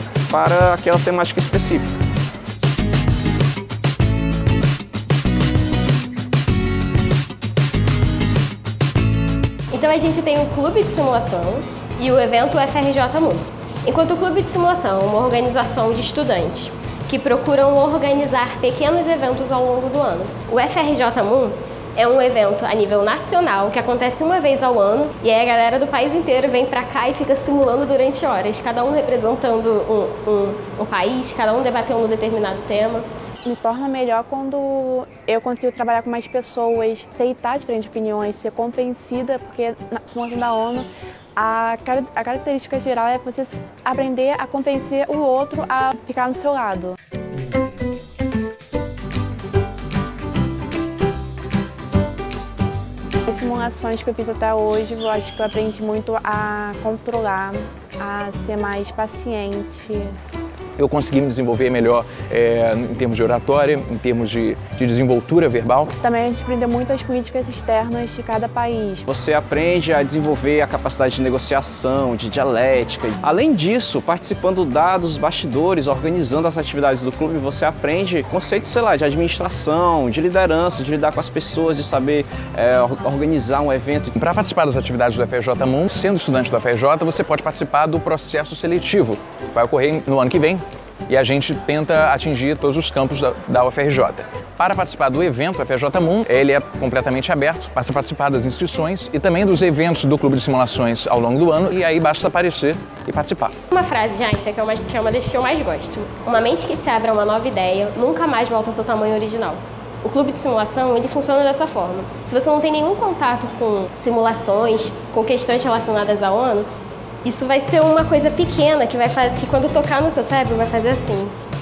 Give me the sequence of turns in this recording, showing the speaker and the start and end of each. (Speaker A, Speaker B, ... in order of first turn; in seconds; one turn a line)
Speaker A: 0.3-1.9
Speaker B: 9.7-33.0
Speaker C: 33.5-47.0
Speaker C: 53.3-60.1
Speaker D: 60.8-65.9
Speaker C: 66.0-69.1
Speaker A: 69.1-84.1
Speaker D: 84.2-103.5
Speaker B: 103.7-116.7
Speaker B: 117.2-121.3